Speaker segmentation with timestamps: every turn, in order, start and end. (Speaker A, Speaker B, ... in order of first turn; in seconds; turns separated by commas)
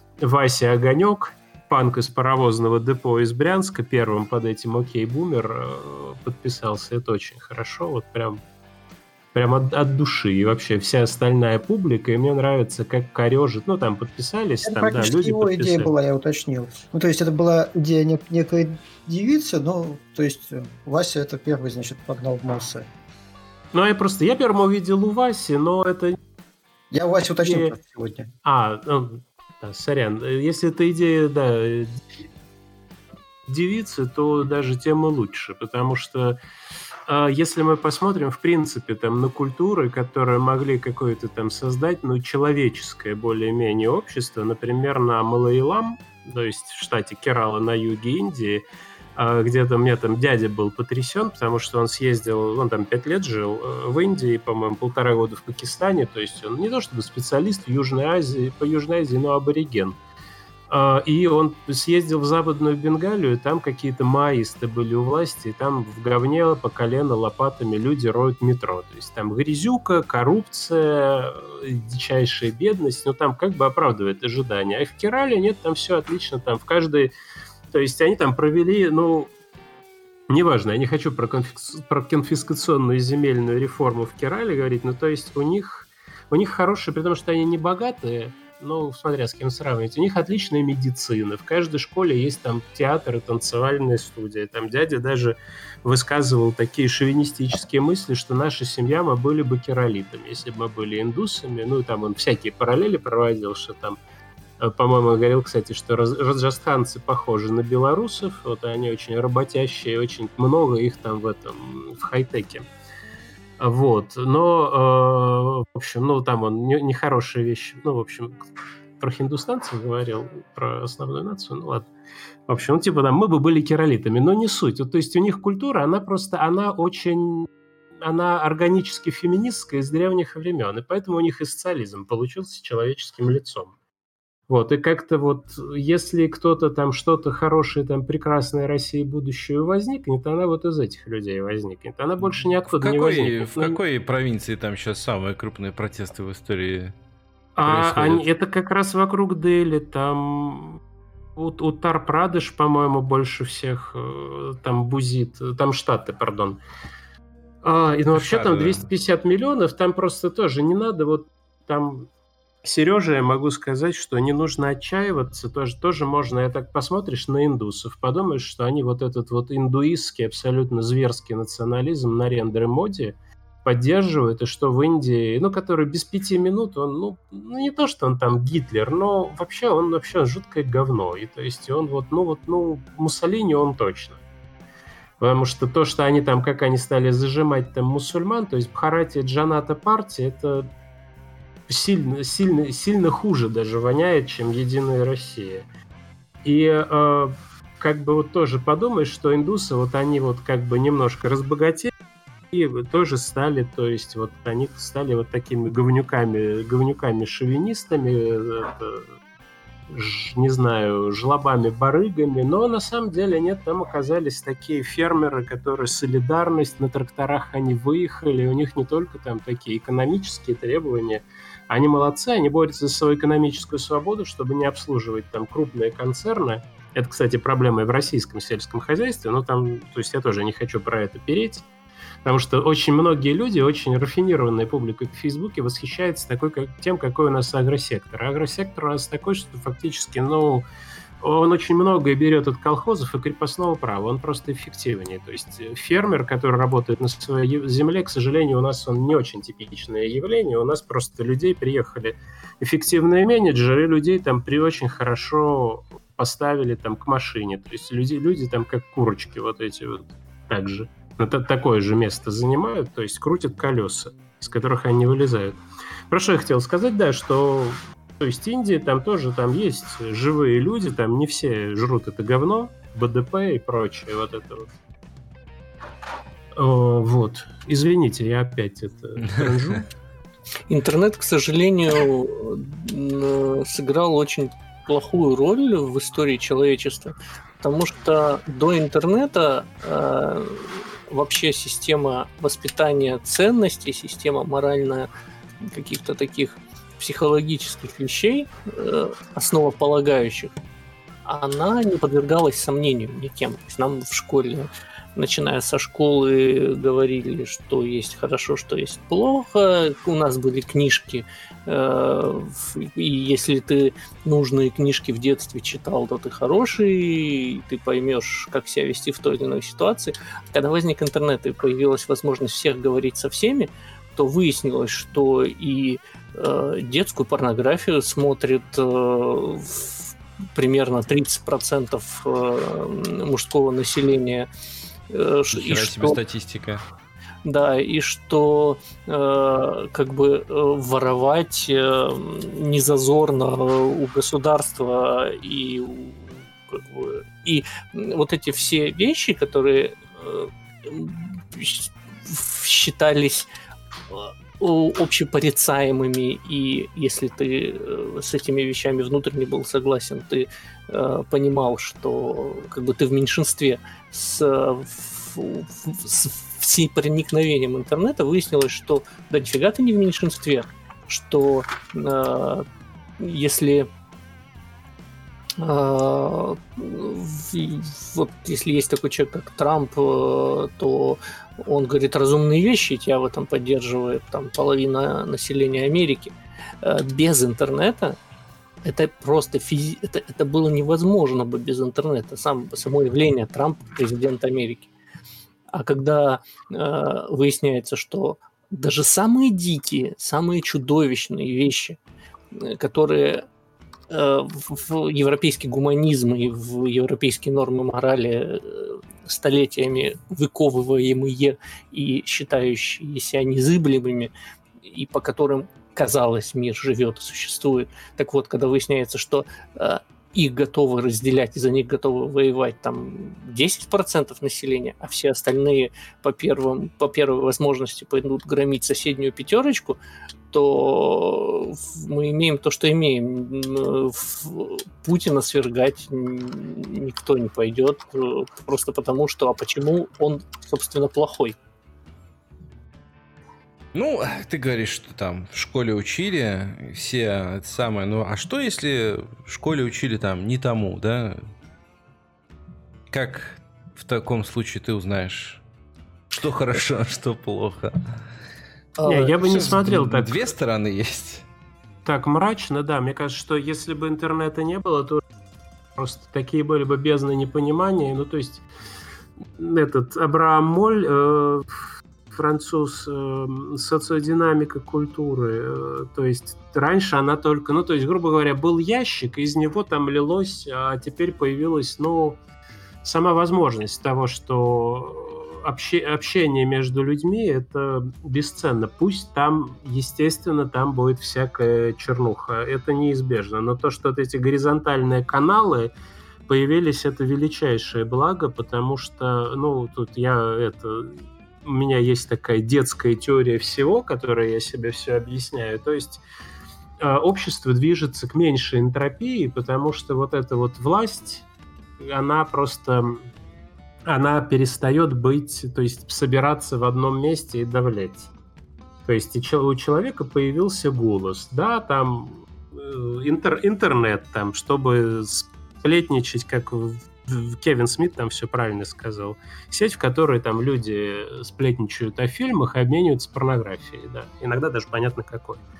Speaker A: 0.2-8.4, Speaker A: 9.3-15.9, Speaker B: 14.6-22.9, Speaker A: 23.7-26.2, Speaker B: 26.9-28.3, Speaker A: 27.4-27.7, Speaker A: 28.4-32.0, Speaker A: 33.5-36.4, Speaker A: 37.1-48.6, Speaker A: 49.1-60.0, Speaker A: 60.7-77.1, Speaker A: 77.7-79.3, Speaker A: 80.3-104.0, Speaker A: 104.6-112.7, Speaker A: 113.6-118.4, Speaker A: 119.0-121.9, Speaker A: 122.5-127.5, Speaker A: 128.0-133.7, Speaker A: 134.5-143.8, Speaker C: 142.7-146.9, Speaker A: 147.6-150.8, Speaker C: 147.6-148.2, Speaker A: 151.3-156.6, Speaker A: 157.6-162.1, Speaker C: 158.1-158.9, Speaker A: 162.6-184.2, Speaker A: 185.2-190.7, Speaker A: 191.7-195.7, Speaker A: 196.4-201.9, Speaker A: 202.5-209.0, Speaker A: 209.9-231.7, Speaker A: 232.2-240.7, Speaker A: 241.2-274.7, Speaker A: 276.6-279.9, Speaker C: 279.2-279.8, Speaker D: 280.7-295.1, Speaker D: 295.6-300.5, Speaker D: 301.2-334.5, Speaker D: 335.1-336.2, Speaker C: 335.5-336.8, Speaker D: 337.4-353.5, Speaker D: 354.1-372.6, Speaker D: 373.2-373.9, Speaker D: 375.6-388.2, Speaker D: 388.8-394.9, Speaker D: 395.7-402.0, Speaker D: 402.5-403.4, Speaker D: 404.1-414.3, Speaker D: 414.8-430.0, Speaker D: 430.5-441.6, Speaker C: 443.9-451.4, Speaker C: 453.1-455.6, Speaker C: 456.3-458.0, Speaker D: 459.0-459.4, Speaker A: 459.1-460.4, Speaker C: 459.4-461.4, Speaker A: 462.0-465.2, Speaker A: 465.9-468.6, Speaker A: 469.6-471.7, Speaker A: 472.3-482.4, Speaker A: 483.0-495.9, Speaker A: 496.5-506.2, Speaker A: 507.0-511.4, Speaker A: 512.0-513.3, Speaker A: 514.1-518.3, Speaker A: 519.0-535.6